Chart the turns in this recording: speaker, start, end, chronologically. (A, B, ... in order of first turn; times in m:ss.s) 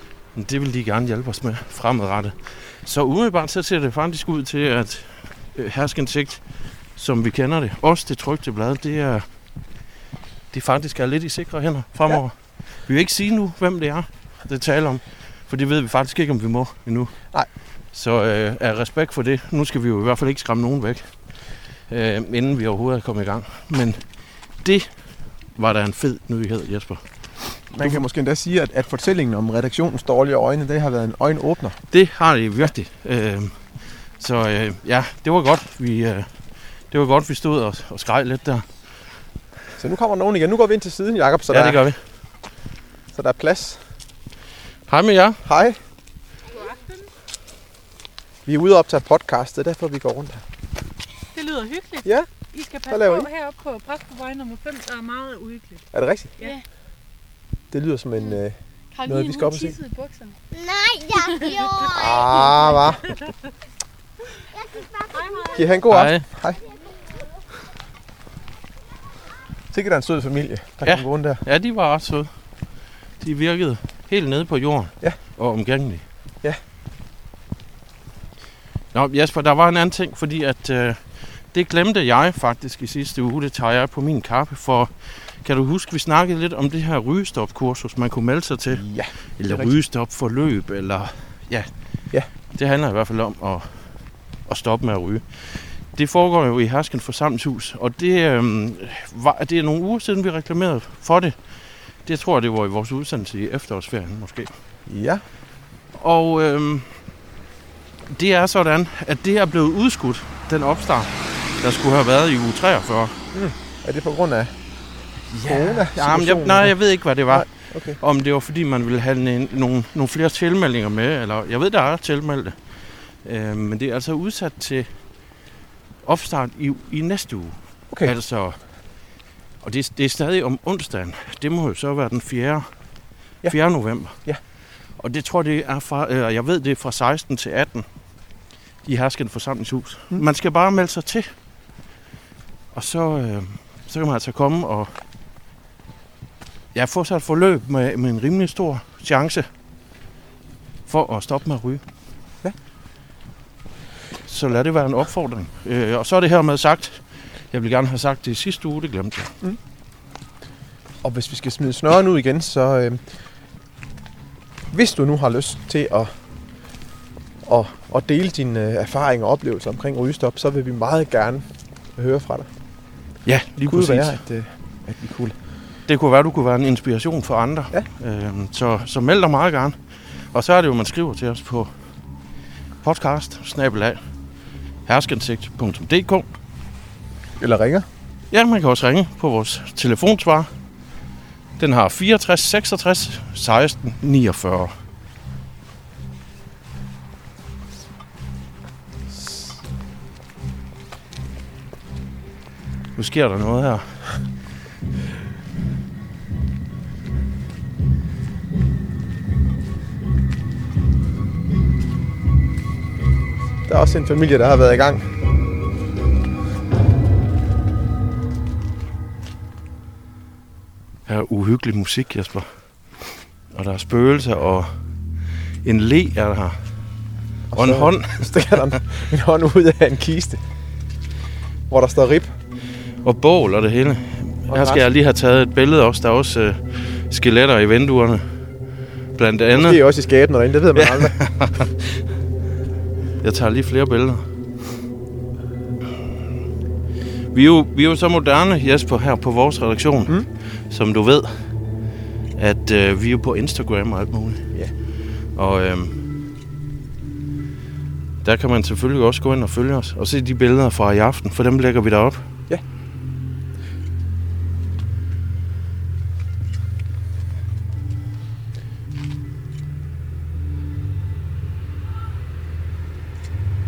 0:00.4-0:06.4 A
0:07.0-0:09.3 A
0:10.5-0:17.2 A
0:17.9-0:21.4 A
0:21.9-0:24.0 A
0:24.6-0:28.0 A
0:27.7-0:31.8 B
0:31.9-0:36.4 A
0:36.9-0:38.7 A
0:39.8-0:41.8 B
0:41.5-0:42.0 A
0:43.1-0:43.8 B
0:44.9-0:45.4 A
0:45.4-0:45.8 B
0:46.5-0:47.1 C
0:48.4-0:50.4 B
0:51.3-0:55.8 C
0:52.9-0:53.3 B
0:55.9-0:56.4 B
0:56.4-0:56.6 C
0:57.7-0:59.8 B
0:58.9-1:00.4 C
1:00.5-1:02.8 D
1:01.4-1:03.3 C
1:01.9-1:03.1 B
1:04.5-1:05.8 D
1:05.1-1:05.7 C
1:05.5-1:06.6 B
1:05.9-1:06.2 A
1:06.7-1:07.4 D
1:09.7-1:11.4 B
1:10.8-1:12.3 A
1:13.2-1:16.0 A
1:18.9-1:31.7 A
1:28.7-1:29.7 B
1:32.5-1:41.4 A
1:42.0-1:44.5 A
1:44.9-1:45.2 B
1:46.0-1:47.0 A
1:48.1-1:53.2 A
1:53.3-1:54.6 B
1:55.3-2:02.6 A
1:55.4-1:56.8 B
1:57.3-1:58.0 B
2:03.2-2:04.9 A
2:06.0-2:08.6 A
2:09.6-2:12.7 A
2:13.4-2:14.4 B
2:13.5-2:14.2 A
2:15.0-2:17.9 A
2:18.8-2:21.3 A
2:22.7-2:25.0 A
2:26.8-2:29.5 A
2:30.9-2:31.8 A
2:34.3-2:39.4 A
2:41.0-2:43.0 B
2:44.7-2:46.1 B
2:47.4-2:52.5 B
2:53.2-2:54.2 A
2:53.6-2:55.4 B
2:55.9-2:59.8 A
3:00.3-3:01.7 A
3:02.8-3:04.0 A
3:04.9-3:06.3 A
3:07.4-3:07.9 B
3:08.3-3:10.5 A
3:11.6-3:14.8 A
3:23.0-3:24.1 A
3:33.7-3:35.1 B
3:41.1-3:45.0 A
3:45.6-3:46.6 A
3:47.5-3:50.4 B
3:47.5-3:48.6 A
3:51.7-3:52.3 B
3:53.0-3:58.2 A
3:54.5-3:54.9 B
3:59.2-3:59.8 A
3:59.5-4:01.2 B
4:00.8-4:02.0 A
4:03.2-4:04.2 A
4:07.3-4:11.6 A
4:12.4-4:14.5 A
4:15.2-4:16.0 A
4:18.2-4:22.3 A